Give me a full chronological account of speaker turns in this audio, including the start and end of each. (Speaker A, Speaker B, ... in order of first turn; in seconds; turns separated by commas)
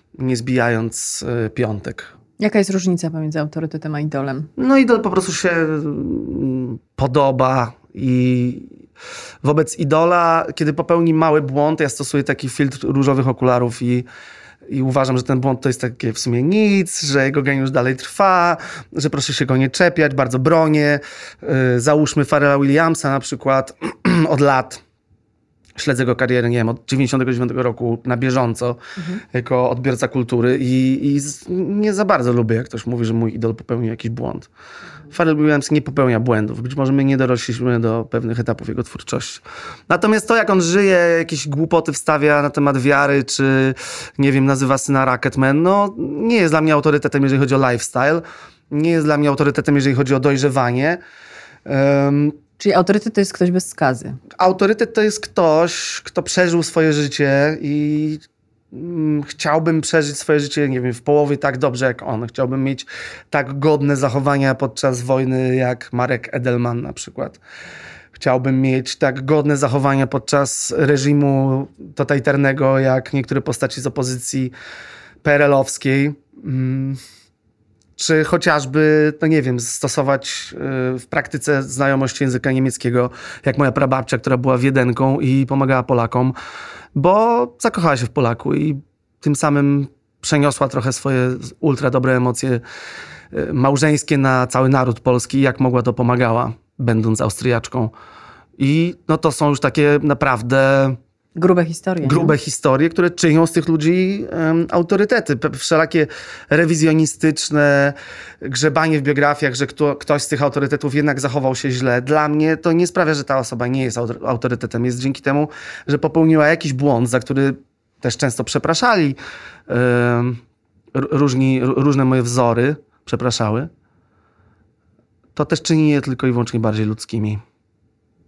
Speaker A: 0.2-2.1, Speaker B: 2.4-4.5, Speaker A: 4.6-8.7, Speaker A: 9.4-14.1, Speaker A: 14.7-24.8, Speaker A: 25.8-28.8, Speaker B: 29.0-29.2, Speaker A: 29.3-34.5, Speaker A: 35.1-51.0, Speaker A: 51.6-52.4, Speaker B: 52.6-54.2, Speaker A: 54.4-67.4, Speaker A: 68.1-74.5, Speaker A: 75.2-77.0, Speaker A: 78.0-86.3, Speaker A: 86.9-92.6, Speaker A: 93.3-97.9, Speaker A: 98.6-101.0, Speaker B: 101.3-102.3, Speaker A: 102.0-120.4, Speaker A: 120.9-123.7, Speaker A: 125.3-127.4